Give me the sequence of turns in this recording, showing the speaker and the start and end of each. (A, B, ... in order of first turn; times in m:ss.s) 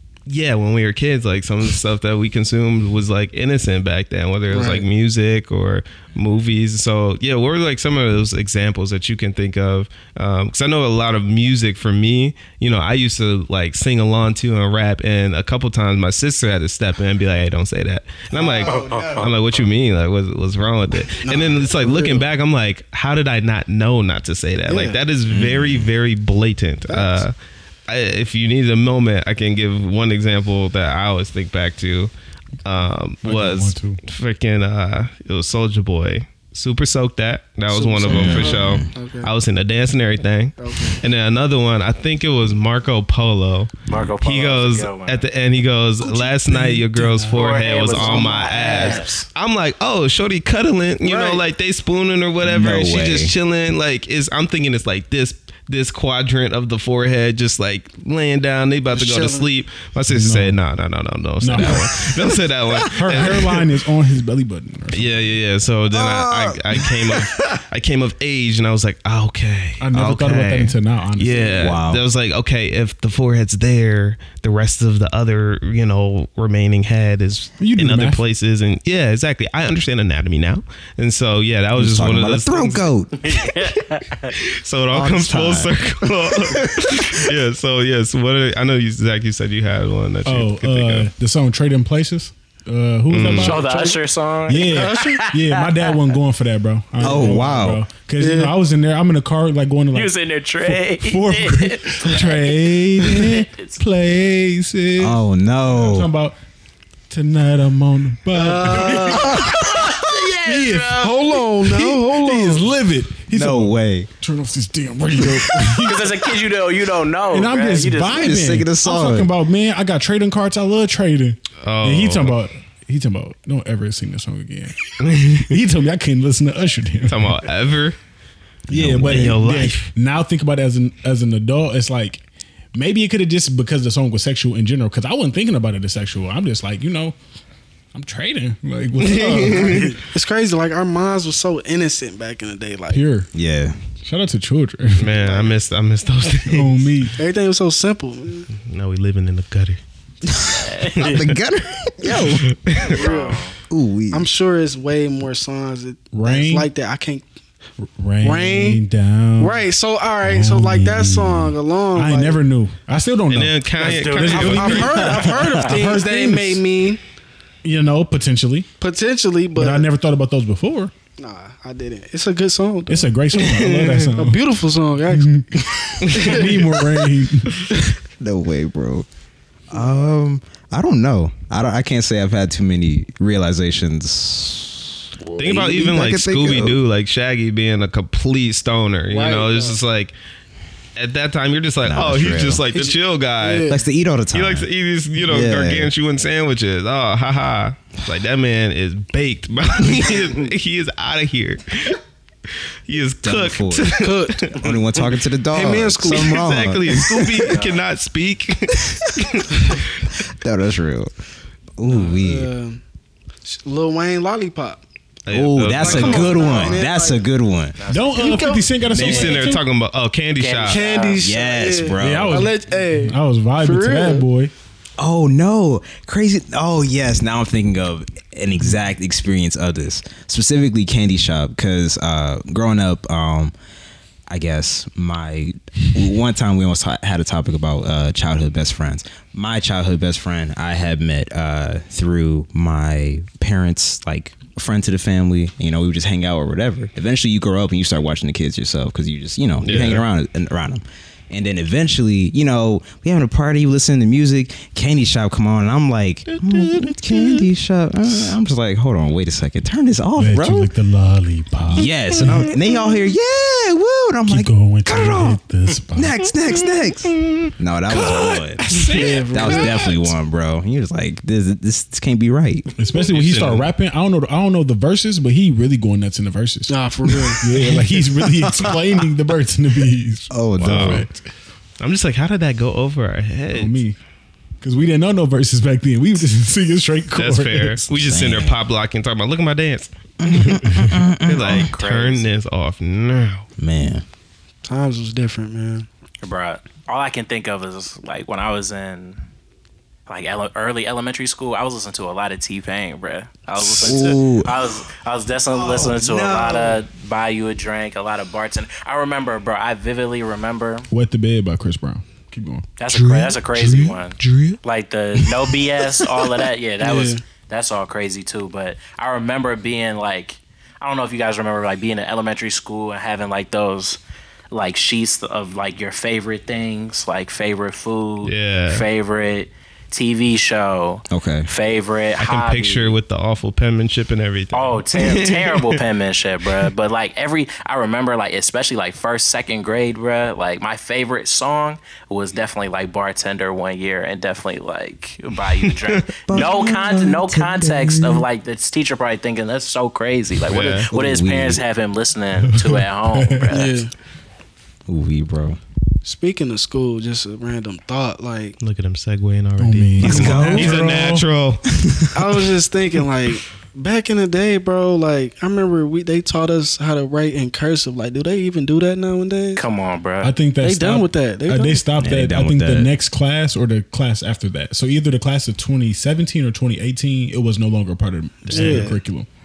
0:00.3-0:27.3 A
0:04.5-0:04.8 B
0:18.3-0:19.7 B
0:18.6-0:19.3 C
0:21.2-0:22.2 B
0:24.7-0:25.0 B
0:25.3-0:25.9 D
0:26.9-0:27.3 B
0:27.9-0:32.1 A
0:32.6-1:03.6 A
0:33.2-0:34.0 E
0:37.7-0:39.3 B
0:38.1-0:38.9 D
0:40.6-0:41.0 B
0:43.9-0:45.2 C
0:46.0-0:48.2 E
0:47.3-0:49.3 C
0:48.7-0:49.0 B
0:51.0-0:51.4 B
0:52.4-0:53.3 D
0:58.9-0:59.5 B
1:00.1-1:00.6 E
1:01.4-1:01.9 E
1:01.5-1:02.4 D
1:02.9-1:05.4 E
1:04.9-1:22.9 A
1:05.9-1:07.6 D
1:09.8-1:11.8 E
1:11.6-1:12.0 D
1:17.6-1:18.2 E
1:21.8-1:23.3 D
1:23.2-1:24.3 C
1:24.3-1:31.1 A
1:24.9-1:27.3 D
1:30.2-1:46.4 E
1:33.1-1:33.6 A
1:33.4-1:35.9 C
1:34.7-1:35.2 B
1:37.0-1:37.9 D
1:38.2-1:38.5 B
1:39.9-1:43.8 C
1:45.0-1:46.1 D
1:47.1-1:49.9 E
1:48.3-1:49.4 B
1:49.0-1:51.4 C
1:49.2-1:49.9 D
1:50.4-1:51.0 E
1:51.0-1:52.7 B
1:51.6-1:56.3 E
1:53.3-1:54.1 D
1:55.8-1:58.5 C
1:57.3-2:07.5 E
1:58.1-1:59.3 D
2:01.6-2:02.4 A
2:05.0-2:05.5 A
2:07.1-2:08.0 A
2:08.7-2:12.2 E
2:08.7-2:09.4 D
2:08.9-2:09.9 A
2:12.8-2:17.2 E
2:17.9-2:20.0 E
2:19.0-2:20.0 A
2:19.5-2:23.0 B
2:22.9-2:23.3 E
2:23.3-2:23.8 D
2:24.0-2:25.1 E
2:25.0-2:27.1 A
2:25.2-2:25.5 B
2:26.4-2:27.2 E
2:27.2-2:28.5 B
2:28.5-2:29.8 A
2:30.2-2:32.5 D
2:30.5-2:31.2 C
2:31.0-2:31.4 A
2:32.1-2:33.0 A
2:32.8-2:33.4 B
2:32.8-2:33.6 C
2:33.7-2:34.3 D
2:34.1-2:37.3 B
2:36.1-2:36.7 E
2:38.0-2:39.6 E
2:38.2-2:38.8 B
2:39.4-2:42.4 B
2:40.2-2:46.6 E
2:43.3-2:45.3 A
2:43.8-2:45.1 C
2:44.3-2:47.0 B
2:47.6-2:48.7 E
2:48.8-2:49.9 B
2:49.6-2:50.9 E
2:51.2-2:53.1 B
2:52.9-2:54.4 E
2:53.4-2:54.1 A
2:54.1-2:56.6 B
2:55.1-2:57.6 E
2:56.0-2:56.5 A
2:58.2-2:59.1 D
2:59.7-3:06.8 D
3:05.4-3:10.1 A
3:09.1-3:09.8 B
3:11.0-3:13.7 A
3:11.8-3:12.7 D
3:12.7-3:13.8 B
3:13.7-3:14.7 D
3:14.3-3:22.0 A
3:15.2-3:15.9 D
3:22.9-3:24.7 A
3:23.2-3:24.0 D
3:24.0-3:27.5 B
3:24.5-3:27.3 D
3:26.0-3:30.1 A
3:27.3-3:27.8 C
3:30.2-3:31.1 D
3:31.8-3:32.5 D
3:31.9-3:32.8 B
3:33.4-3:34.8 B
3:35.3-3:36.8 A
3:35.3-3:37.8 D
3:35.8-3:37.3 B
3:37.8-3:38.5 C
3:37.9-3:39.6 E
3:38.0-3:38.7 B
3:38.9-3:39.4 D
3:38.9-3:40.8 A
3:40.4-3:41.2 C
3:40.6-3:44.3 B
3:41.2-3:42.5 D
3:42.0-3:44.5 E
3:45.0-3:53.5 D
3:54.3-4:20.7 D
4:09.6-4:10.0 A
4:16.4-4:17.4 A
4:20.2-4:22.5 E
4:21.7-4:25.4 D
4:24.3-4:26.2 E
4:26.0-4:32.7 D
4:28.6-4:29.9 E
4:28.9-4:30.0 B
4:32.8-4:36.7 E
4:33.1-4:33.7 A
4:36.7-4:37.5 B
4:37.4-4:41.2 E
4:40.3-4:41.1 D
4:40.6-4:41.1 A
4:41.8-4:43.8 A
4:43.5-4:44.0 E
4:44.6-4:47.9 E
4:47.2-4:53.5 A
4:48.0-4:48.6 D
4:50.2-4:51.7 D
4:51.3-4:52.3 C
4:53.6-4:54.0 D
4:54.7-4:55.9 B
4:56.2-4:59.2 C
5:00.1-5:10.9 C
5:03.6-5:04.8 D
5:05.5-5:06.8 D
5:10.9-5:14.6 E
5:12.8-5:24.0 C
5:15.2-5:15.4 E
5:16.8-5:17.2 B
5:24.5-5:33.0 C
5:28.2-5:28.9 A
5:31.1-5:31.5 D
5:32.2-5:35.8 A
5:34.5-5:53.9 C
5:45.5-5:46.5 A
5:46.2-5:48.3 D
5:50.5-5:50.9 A
5:50.6-5:51.6 D
5:52.4-5:53.6 E
5:53.5-5:53.9 B
5:54.9-5:55.6 D
5:56.0-5:58.6 B
5:58.6-6:01.8 A
5:59.6-6:01.3 E
6:00.0-6:00.9 D
6:01.7-6:02.1 D
6:02.1-6:09.6 B
6:09.6-6:10.3 C
6:10.2-6:19.3 E
6:10.6-6:11.9 B
6:12.0-6:12.9 D
6:18.5-6:19.0 B
6:18.5-6:18.8 A